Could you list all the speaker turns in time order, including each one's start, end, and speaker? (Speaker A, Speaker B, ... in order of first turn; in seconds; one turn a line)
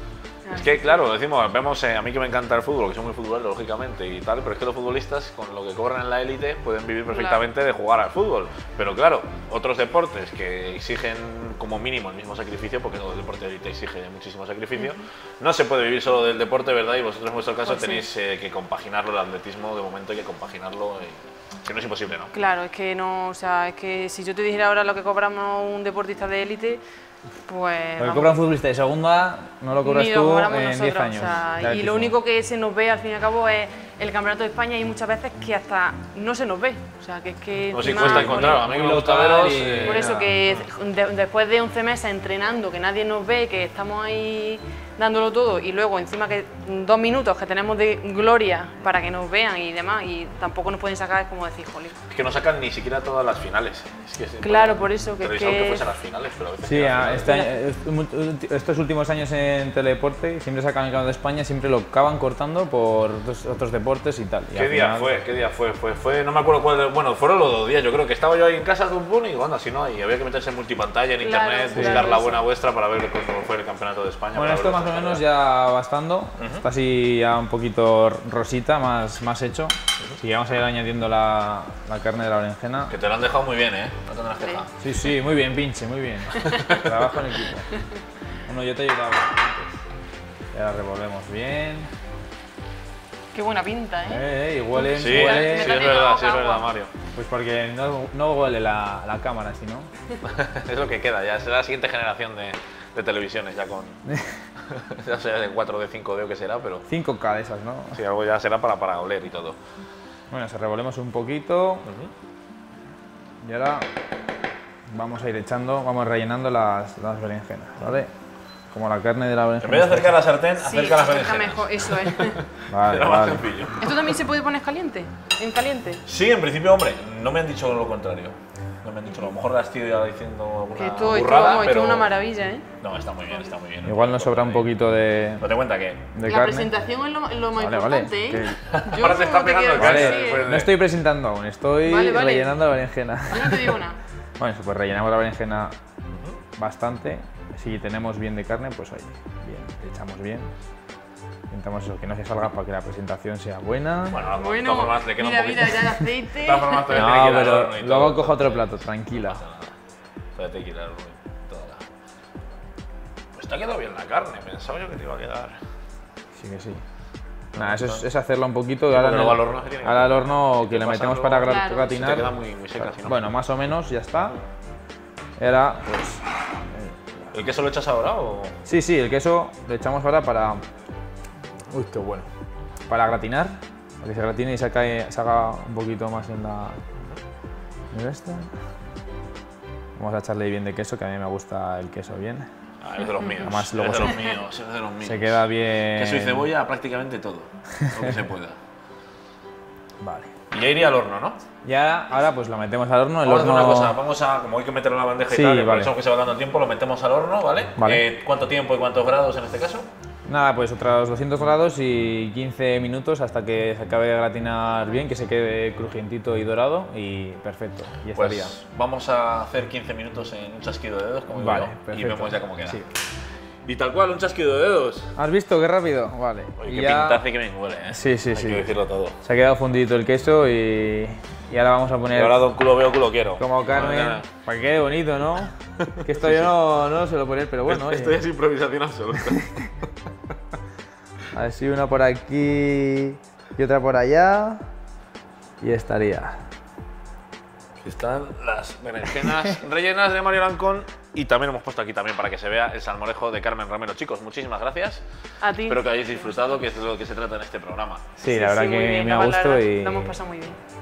Speaker A: 0.4-1.0
Speaker B: 0.5-22.3
Speaker A: 7.1-7.4
Speaker A: 14.8-15.0
Speaker A: 17.6-18.0
Speaker A: 22.3-26.8
Speaker A: 27.4-28.4
Speaker C: 28.0-32.1
Speaker A: 29.8-38.7
Speaker B: 37.7-40.7
Speaker C: 37.8-40.3
Speaker A: 39.8-52.0
Speaker B: 52.1-57.4
Speaker A: 54.4-55.8
Speaker C: 56.6-65.1
Speaker B: 64.5-75.2
Speaker A: 71.2-72.5
Speaker C: 71.7-72.0
Speaker C: 74.3-82.9
Speaker B: 76.4-76.6
Speaker B: 82.9-84.7
Speaker C: 84.8-87.7
Speaker B: 86.3-87.0
Speaker C: 88.5-89.7
Speaker C: 90.5-91.9
Speaker A: 93.3-96.7
Speaker C: 94.1-95.8
Speaker B: 94.9-96.9
Speaker C: 97.1-99.9
Speaker B: 100.2-104.0
Speaker C: 104.1-104.3
Speaker B: 104.7-106.8
Speaker C: 106.9-108.0
Speaker B: 107.9-109.6
Speaker C: 110.3-111.9
Speaker B: 111.8-112.1
Speaker C: 113.4-113.9
Speaker C: 114.9-118.1
Speaker C: 118.7-120.2
Speaker B: 119.6-124.0
Speaker A: 120.6-122.4
Speaker C: 122.7-123.5
Speaker A: 123.8-126.0
Speaker B: 126.0-132.1
Speaker A: 130.8-132.7
Speaker B: 132.8-134.7
Speaker C: 133.8-135.5
Speaker B: 135.4-136.1
Speaker C: 136.1-136.7
Speaker A: 136.2-140.5
Speaker C: 137.6-138.7
Speaker B: 138.7-140.7
Speaker C: 139.8-143.8
Speaker A: 141.8-142.6
Speaker A: 143.3-144.0
Speaker C: 144.4-145.7
Speaker C: 146.6-150.5
Speaker C: 151.5-154.2
Speaker B: 154.1-159.7
Speaker A: 154.3-157.0
Speaker C: 156.9-159.4
Speaker B: 160.3-161.8
Speaker B: 163.3-165.6
Speaker C: 166.4-166.8
Speaker C: 167.5-172.3
Speaker B: 167.6-168.0
Speaker B: 168.9-173.3
Speaker A: 171.4-172.0
Speaker C: 173.0-174.4
Speaker C: 175.4-177.0
Speaker B: 177.3-178.6
Speaker C: 178.6-180.6
Speaker C: 181.7-182.3
Speaker C: 182.9-186.8
Speaker C: 187.9-188.5
Speaker C: 190.0-192.5
Speaker B: 192.8-198.6
Speaker C: 193.4-194.2
Speaker C: 195.0-196.5
Speaker C: 197.8-198.1
Speaker C: 200.0-200.3
Speaker B: 200.5-201.4
Speaker C: 201.6-203.9
Speaker B: 203.2-209.9
Speaker C: 205.3-205.9
Speaker C: 207.8-208.0
Speaker C: 210.3-218.6
Speaker B: 218.1-222.8
Speaker C: 221.3-222.9
Speaker B: 223.6-225.1
Speaker C: 225.2-227.2
Speaker B: 226.6-229.2
Speaker C: 227.9-232.5
Speaker B: 232.1-234.3
Speaker C: 233.4-238.2
Speaker B: 235.8-236.5
Speaker B: 237.7-239.8
Speaker C: 239.3-239.7
Speaker C: 241.3-244.7
Speaker C: 245.6-246.4
Speaker B: 247.8-255.0
Speaker A: 255.4-256.4
Speaker B: 255.6-258.1
Speaker C: 258.2-260.1
Speaker A: 258.3-260.6